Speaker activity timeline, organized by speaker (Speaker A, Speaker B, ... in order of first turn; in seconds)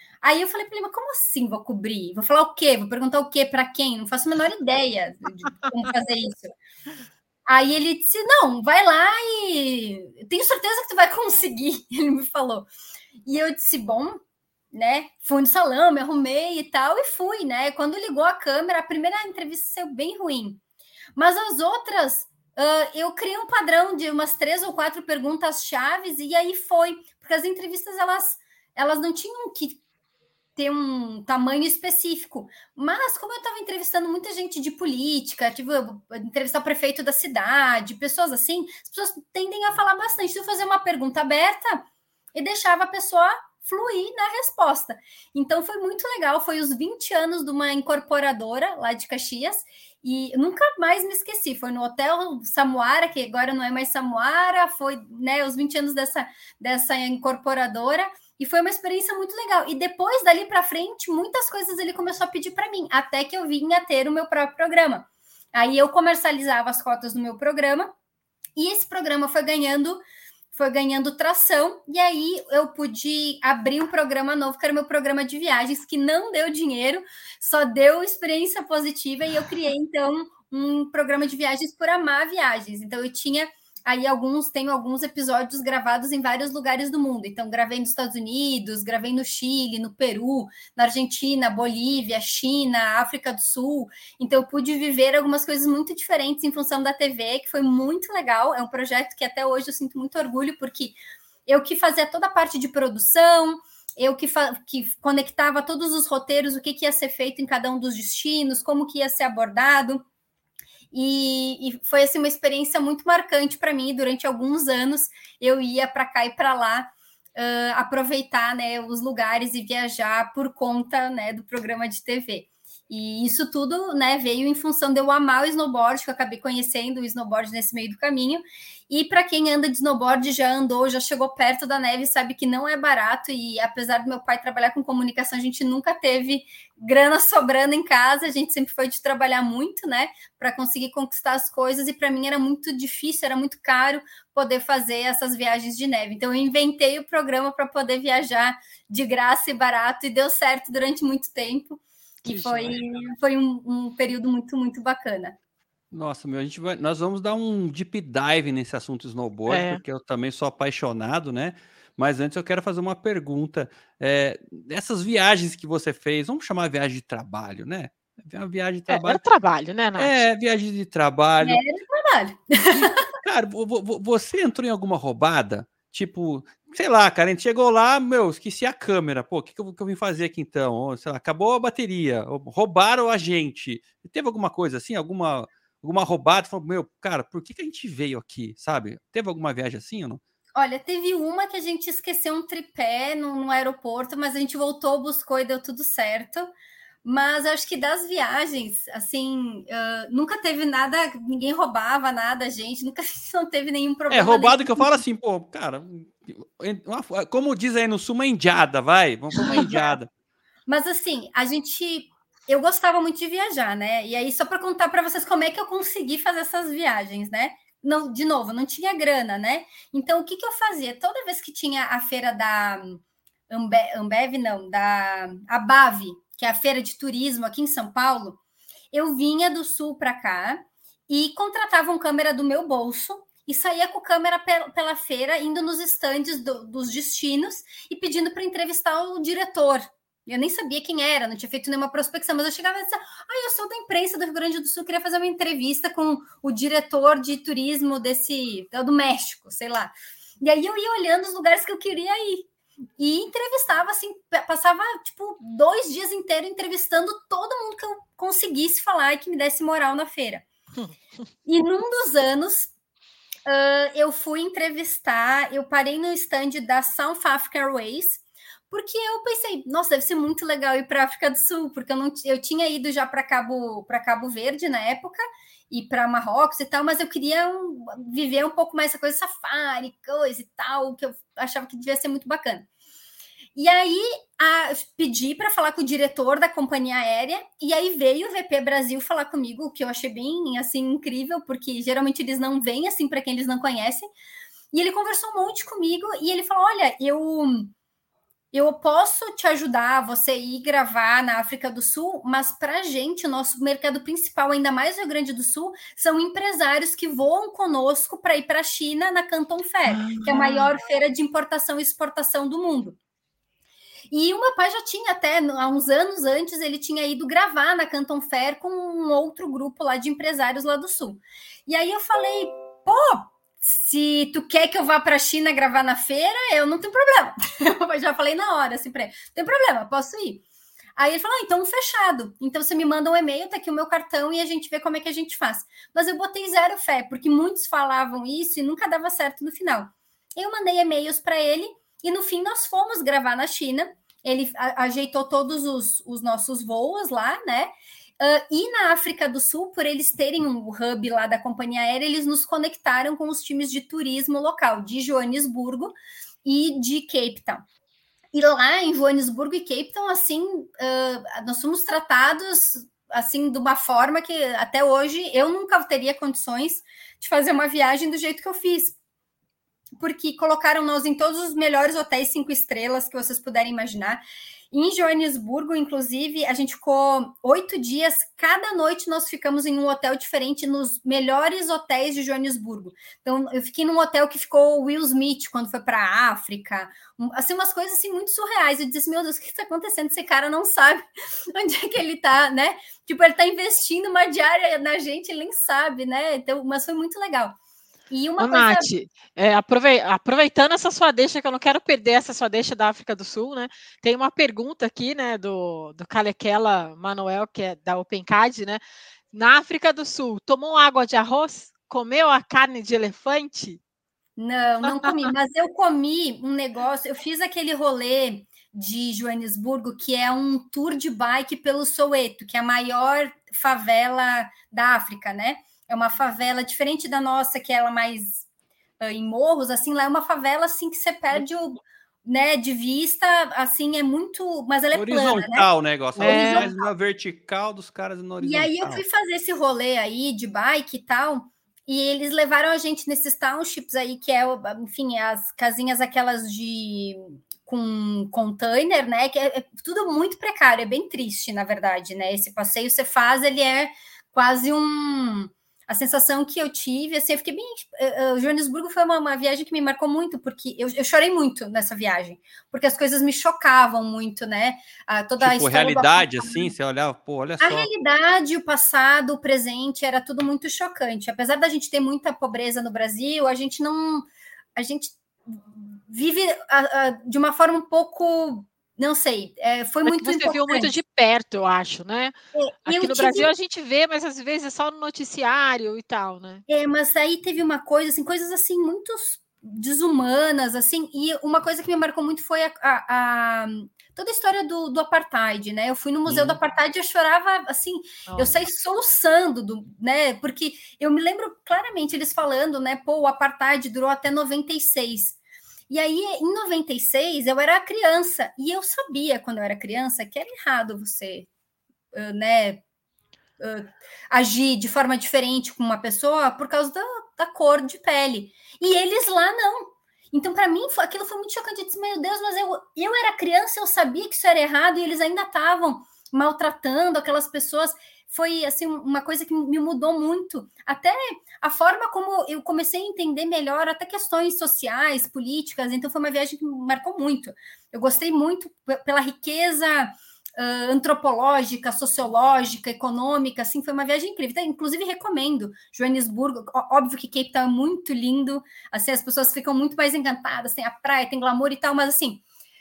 Speaker A: 0.2-6.5, 7.5-12.7, 13.2-14.2, 14.7-20.6, 21.1-29.8, 30.6-67.9, 68.6-70.0, 70.5-110.0, 110.9-155.3, 171.4-173.0, 190.6-196.5, 197.0-205.0, 210.7-228.4, 228.9-252.5, 253.0-260.4, 261.4-262.7, 263.4-282.7, 283.5-294.1, 294.7-297.7, 298.5-313.0, 314.1-330.4, 330.9-357.6, 358.3-369.0, 370.0-397.6, 398.1-398.9, 414.4-428.5, 429.0-436.9, 438.4-466.7, 467.6-481.0, 482.5-483.5, 486.7-505.4, 505.9-511.5, 512.1-512.8, 513.6-552.4
Speaker B: 152.2-152.8, 159.5-159.8, 168.9-170.1, 309.9-310.7, 398.4-413.8, 414.9-415.3, 436.2-436.7, 480.0-482.3, 482.9-486.6, 498.3-498.6
Speaker C: 155.9-169.2, 170.0-171.6, 172.7-190.2, 204.1-210.1, 434.9-439.0, 465.4-467.9, 496.2-496.6